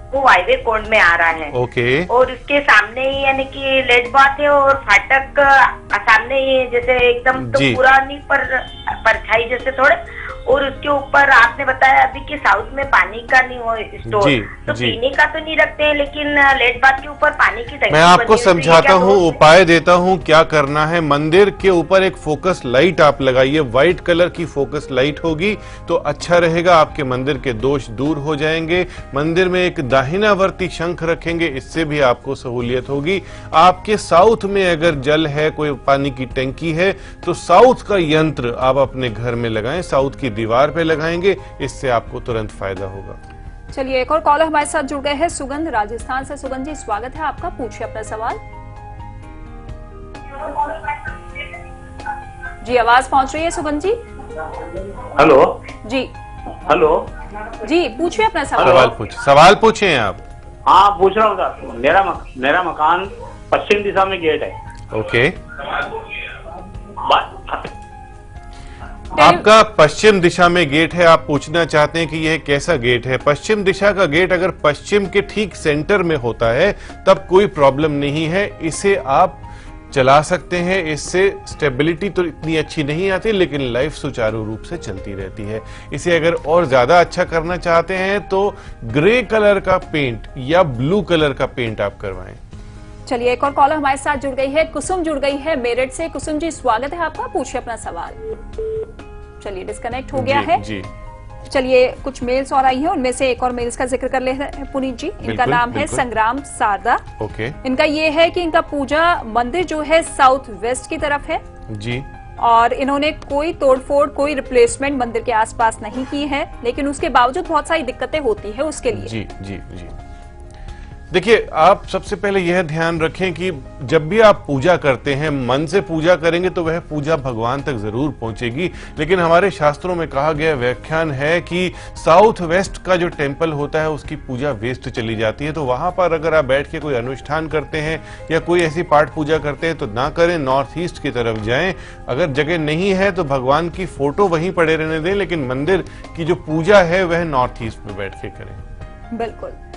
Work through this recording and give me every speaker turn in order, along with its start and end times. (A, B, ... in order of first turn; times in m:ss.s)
0:00.1-0:01.6 A
0:01.5-0:02.1 B
0:02.1-0:19.4 A
0:07.3-0:07.8 B
0:14.1-0:15.0 B
0:17.9-0:43.2 B
0:43.7-0:48.4 C
0:52.6-0:54.0 C
0:55.1-0:55.5 D
0:55.8-0:56.1 C
0:56.7-0:57.1 D
0:57.6-0:58.9 C
0:58.6-1:00.2 B
1:00.7-1:04.5 D
1:04.9-1:05.4 B
1:07.0-1:07.7 D
1:09.1-1:32.4 B
1:09.2-1:09.4 C
1:33.1-1:38.2 C
1:39.4-1:40.6 C
1:40.2-1:40.9 B
1:41.4-1:47.0 C
1:45.2-1:46.0 B
1:47.2-1:47.6 B
1:47.6-1:51.4 C
1:51.7-1:52.1 B
1:52.4-1:59.1 C
1:58.9-2:00.0 B
2:01.1-2:28.6 B
2:29.1-2:29.6 C